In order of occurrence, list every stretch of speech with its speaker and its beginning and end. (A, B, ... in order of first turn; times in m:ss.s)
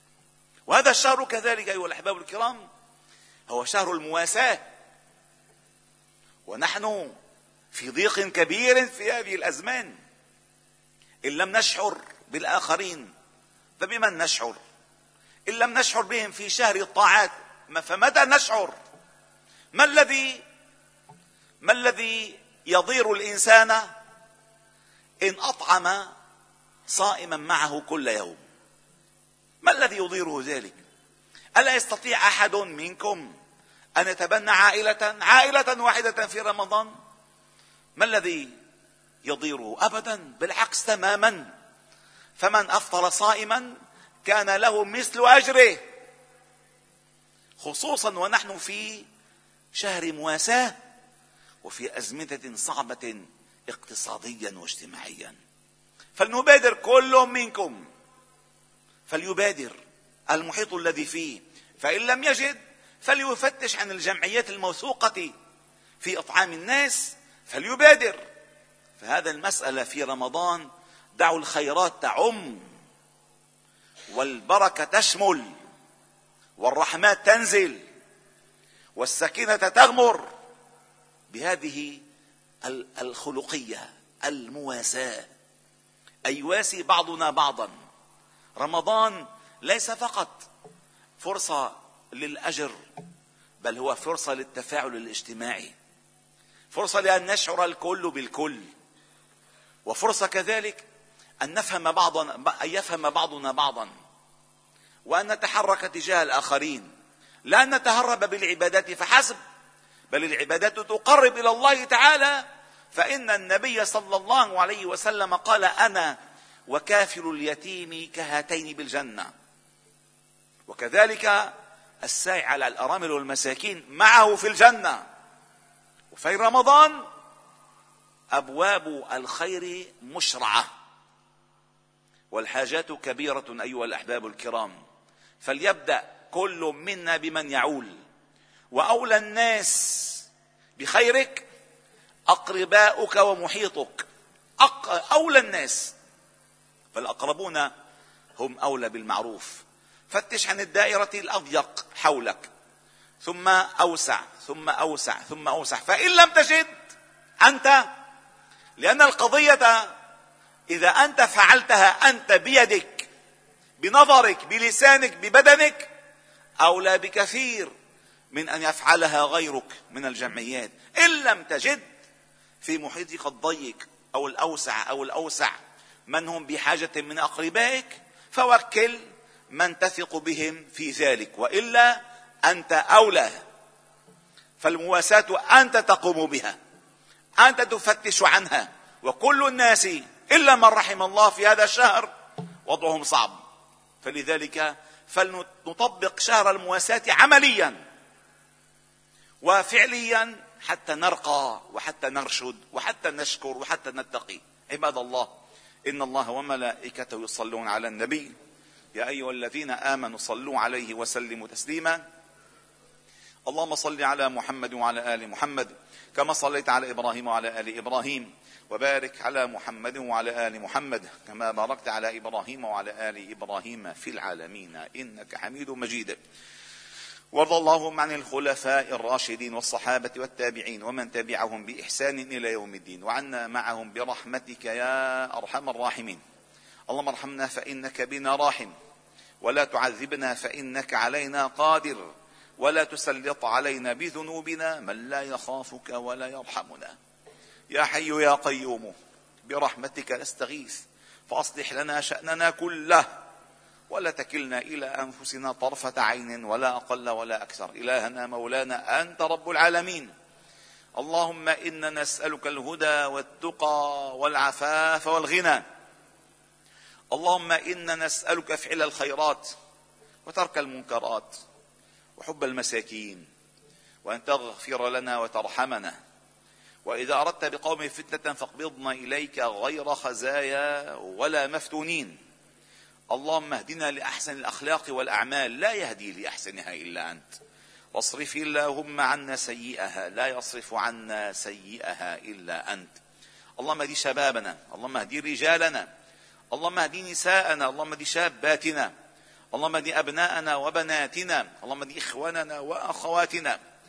0:00.7-0:02.6 A
0:03.5-0:04.6 A
0:06.5-0:07.2 A
0:07.7-0:10.0 A
0:11.2-0:13.1 A
0:13.8-0:14.6 A
0:15.5-0:18.7 A
0:19.7-0:20.4 A
0:21.6-0:23.9 A
0:25.2-0:26.1 A
0:26.9-0:28.4 A
0:29.6-0:30.8 A
0:31.6-0:33.3 A
0:34.0-0:36.9 A
0:38.0-0:38.5 A
0:39.2-0:41.5 A
0:42.4-0:45.8 A
0:47.6-0:49.0 A
0:49.7-0:50.8 A
0:51.6-0:55.4 A
0:56.2-0:57.8 A
0:59.1-0:59.8 A
1:00.3-1:05.3 A
1:06.0-1:08.2 A
1:09.0-1:12.7 A
1:14.1-1:15.5 A
1:16.6-1:17.8 A
1:19.0-1:20.3 A
1:21.3-1:22.0 A
1:22.6-1:25.3 A
1:26.3-1:27.7 A
1:28.6-1:30.5 A
1:31.2-1:32.8 A
1:33.6-1:35.7 A
1:36.7-1:38.7 A
1:39.8-1:40.8 A
1:41.4-1:43.9 A
1:45.1-1:46.9 A
1:47.5-1:49.4 A
1:50.1-1:56.1 A
1:56.7-1:59.3 A
2:00.7-2:05.0 A
2:06.1-2:07.0 A
2:08.3-2:10.7 A
2:12.3-2:14.8 A
2:15.4-2:18.0 A
2:18.7-2:20.2 A
2:20.8-2:21.4 A
2:22.3-2:24.0 A
2:24.6-2:25.9 A
2:26.9-2:27.7 A
2:28.4-2:32.5 A
2:33.2-2:36.7 A
2:37.4-2:37.8 A
2:38.8-2:39.9 A
2:40.7-2:43.1 A
2:43.8-2:45.9 A
2:46.6-2:47.7 A
2:48.3-2:51.8 A
2:52.6-2:55.5 A
2:56.1-3:03.4 A
3:04.6-3:06.6 A
3:07.4-3:12.1 A
3:12.6-3:13.4 A
3:14.0-3:17.8 A
3:19.4-3:25.3 A
3:25.9-3:28.3 A
3:28.9-3:32.0 A
3:33.5-3:46.2 A
3:47.3-3:56.2 A
3:56.9-3:58.7 A
3:59.4-4:02.0 A
4:02.6-4:07.0 A
4:07.7-4:13.1 A
4:13.9-4:20.1 A
4:21.0-4:25.6 A
4:27.1-4:29.5 A
4:30.2-4:31.4 A
4:32.2-4:33.3 A
4:34.0-4:36.0 A
4:36.8-4:42.2 A
4:43.1-4:47.3 A
4:47.9-4:53.0 A
4:53.6-4:55.9 A
4:56.5-4:58.9 A
4:59.5-5:03.6 A